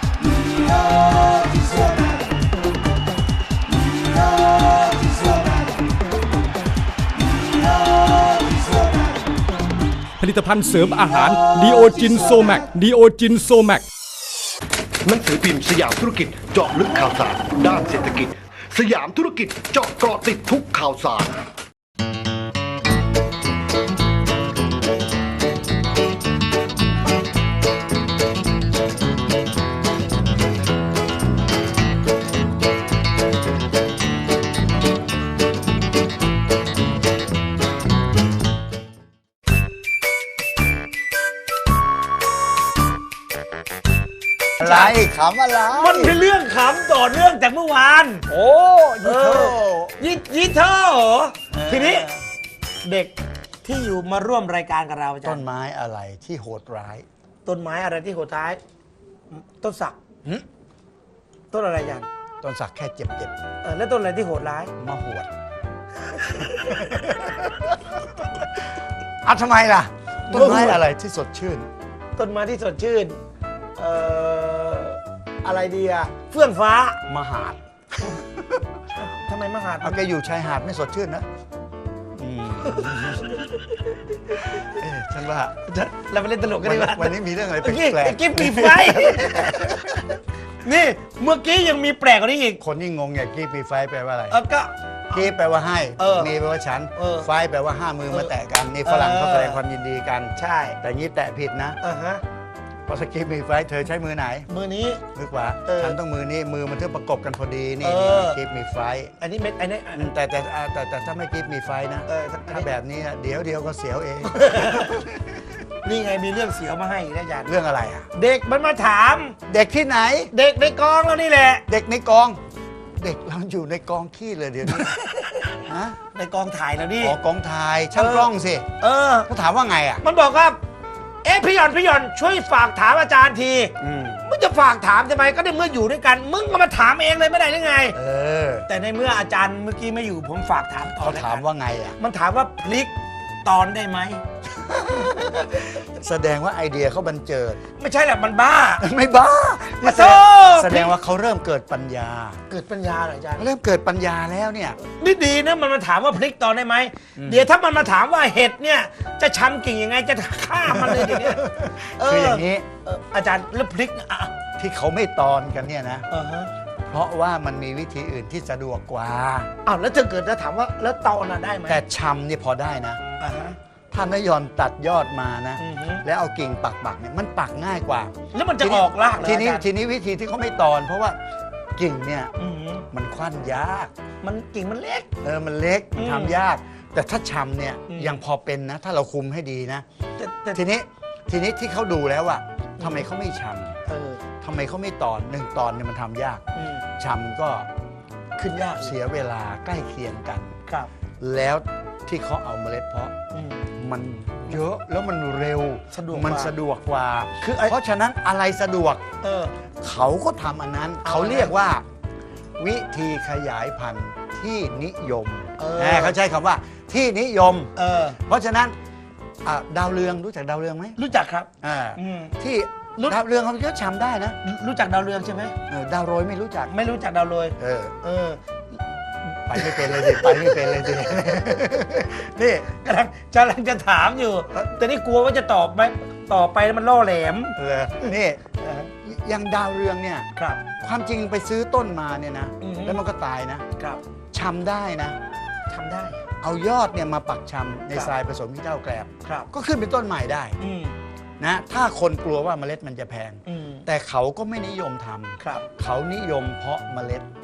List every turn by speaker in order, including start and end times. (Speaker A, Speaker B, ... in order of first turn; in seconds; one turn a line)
Speaker A: 10.2-13.8
Speaker B: 15.0-21.4
Speaker C: 44.6-46.2
Speaker D: 44.6-45.0
Speaker D: 45.8-48.3
Speaker C: 48.3-49.9
Speaker D: 49.0-52.1
Speaker C: 51.5-52.2
Speaker D: 52.8-55.4
Speaker C: 55.2-57.0
Speaker D: 57.4-58.6
Speaker D: 59.3-60.0
Speaker D: 61.5-62.1
Speaker C: 62.4-63.3
Speaker D: 63.6-64.7
Speaker C: 64.8-65.3
Speaker D: 66.1-67.0
Speaker C: 66.6-67.9
Speaker C: 69.2-71.7
Speaker D: 70.3-70.8
Speaker D: 72.2-73.2
Speaker D: 73.8-77.0
Speaker C: 77.1-78.7
Speaker D: 79.0-80.0
Speaker C: 79.8-81.3
Speaker C: 82.1-83.5
Speaker D: 82.8-83.5
Speaker C: 84.3-85.6
Speaker D: 85.7-92.6
Speaker C: 86.6-90.0
Speaker C: 92.6-94.4
Speaker D: 94.3-95.3
Speaker C: 95.1-101.8
Speaker D: 96.0-96.3
Speaker D: 97.0-97.3
Speaker D: 98.8-99.6
Speaker D: 100.4-100.8
Speaker D: 101.8-102.2
Speaker C: 102.9-104.5
Speaker D: 104.5-105.0
Speaker C: 105.1-109.1
Speaker D: 105.7-106.0
Speaker D: 107.8-108.4
Speaker D: 109.2-110.1
Speaker C: 109.9-115.2
Speaker D: 112.1-112.7
Speaker D: 114.3-115.0
Speaker D: 115.8-117.5
Speaker C: 117.4-118.1
Speaker D: 118.1-119.3
Speaker C: 119.5-120.3
Speaker D: 120.3-121.6
Speaker C: 121.7-122.4
Speaker C: 123.0-125.0
Speaker D: 124.7-125.6
Speaker C: 125.5-126.0
Speaker D: 126.1-127.2
Speaker C: 127.0-128.7
Speaker D: 127.9-129.3
Speaker C: 129.3-130.0
Speaker D: 130.0-130.6
Speaker D: 131.2-133.7
Speaker C: 133.8-134.2
Speaker D: 134.2-138.0
Speaker C: 137.9-138.7
Speaker D: 138.7-141.4
Speaker C: 141.0-142.0
Speaker D: 142.0-144.2
Speaker C: 144.6-147.6
Speaker D: 147.8-148.9
Speaker C: 148.8-152.4
Speaker D: 149.7-150.9
Speaker D: 152.5-153.5
Speaker C: 153.4-154.8
Speaker D: 154.8-164.3
Speaker C: 157.2-157.5
Speaker C: 160.7-162.7
Speaker C: 164.6-166.1
Speaker D: 166.1-166.5
Speaker C: 166.8-169.5
Speaker D: 169.6-171.8
Speaker C: 171.7-173.0
Speaker D: 173.2-173.6
Speaker C: 173.9-181.2
Speaker D: 175.6-176.0
Speaker D: 178.3-179.7
Speaker C: 181.8-182.3
Speaker D: 182.4-182.8
Speaker C: 182.9-183.9
Speaker D: 184.2-185.1
Speaker C: 185.2-189.8
Speaker D: 185.9-186.4
Speaker D: 187.9-188.2
Speaker D: 190.2-190.6
Speaker C: 190.5-193.8
Speaker D: 192.8-193.1
Speaker D: 193.9-194.2
Speaker C: 194.4-196.4
Speaker D: 196.6-196.8
Speaker C: 197.0-197.7
Speaker D: 198.3-198.9
Speaker C: 198.7-200.6
Speaker C: 201.2-203.1
Speaker D: 203.3-203.7
Speaker C: 203.8-209.0
Speaker D: 205.9-206.5
Speaker D: 207.4-207.7
Speaker D: 209.2-209.5
Speaker C: 209.8-211.8
Speaker D: 211.0-211.5
Speaker C: 212.6-218.7
Speaker D: 215.6-216.2
Speaker D: 217.8-218.2
Speaker C: 219.4-221.0
Speaker D: 221.0-222.3
Speaker C: 221.6-224.4
Speaker D: 224.4-225.5
Speaker C: 225.7-226.7
Speaker D: 226.7-228.4
Speaker C: 227.6-227.9
Speaker D: 229.3-231.8
Speaker C: 229.5-232.7
Speaker D: 232.6-238.9
Speaker C: 237.6-238.4
Speaker C: 239.0-240.3
Speaker D: 240.3-240.6
Speaker C: 240.8-243.6
Speaker D: 242.6-243.0
Speaker D: 243.8-244.0
Speaker C: 244.3-245.2
Speaker D: 245.7-246.2
Speaker C: 246.4-250.6
Speaker D: 249.2-249.5
Speaker D: 250.6-250.9
Speaker C: 251.4-257.3
Speaker D: 253.5-253.8
Speaker D: 255.4-255.6